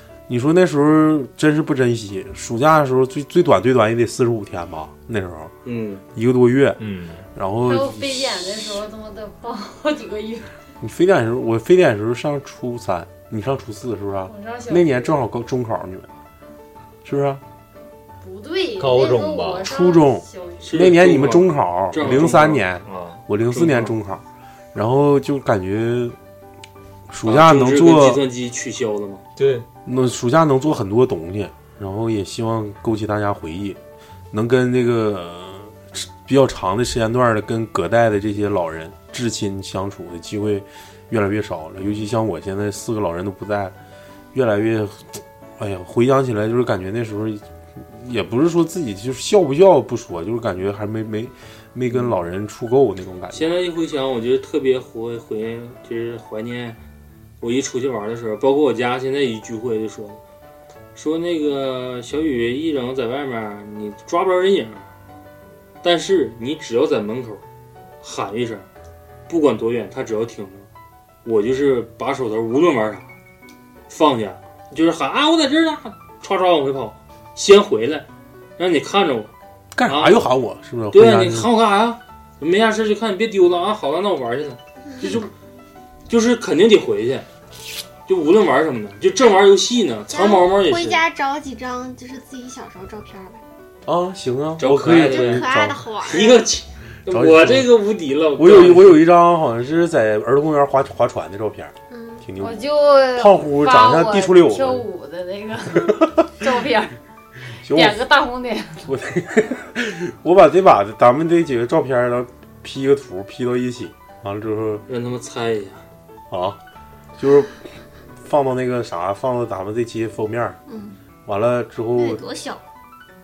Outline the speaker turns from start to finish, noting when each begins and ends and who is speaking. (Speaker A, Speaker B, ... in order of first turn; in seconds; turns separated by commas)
Speaker A: 0.3-5.5, Speaker B: 5.6-6.0, Speaker A: 6.1-6.8, Speaker C: 6.8-7.2, Speaker A: 7.3-8.7, Speaker D: 7.6-10.6, Speaker A: 10.8-16.1, Speaker D: 14.2-15.2, Speaker A: 17.0-17.4, Speaker D: 18.2-20.8, Speaker C: 18.8-19.6, Speaker A: 19.6-24.2, Speaker B: 20.6-22.6, Speaker C: 22.9-23.2, Speaker B: 23.5-23.9, Speaker A: 24.7-26.2, Speaker A: 27.1-28.2, Speaker B: 27.2-29.2, Speaker C: 29.4-29.6, Speaker A: 29.9-33.8, Speaker A: 34.3-43.7, Speaker A: 44.3-53.5, Speaker B: 53.3-56.8, Speaker B: 57.4-60.2, Speaker B: 60.9-64.9, Speaker B: 65.8-67.4, Speaker B: 68.0-68.7, Speaker B: 69.3-70.7, Speaker B: 71.2-73.1, Speaker B: 73.9-78.0, Speaker B: 78.6-79.3, Speaker A: 79.7-81.5, Speaker B: 79.8-80.2, Speaker B: 80.9-85.3, Speaker B: 86.1-87.2, Speaker B: 88.1-91.0, Speaker E: 90.1-93.4, Speaker A: 93.8-95.9, Speaker B: 94.6-95.5, Speaker E: 94.8-96.4, Speaker B: 96.1-99.0, Speaker A: 97.1-97.7, Speaker A: 98.3-102.6, Speaker E: 101.9-102.3, Speaker D: 102.4-106.9, Speaker A: 103.1-104.8, Speaker A: 107.6-108.0, Speaker D: 107.7-108.8, Speaker A: 108.8-114.8, Speaker B: 114.9-115.8, Speaker A: 116.3-116.6, Speaker A: 117.2-117.6, Speaker A: 118.2-120.6, Speaker E: 120.7-121.0, Speaker A: 121.2-122.2, Speaker E: 122.0-122.6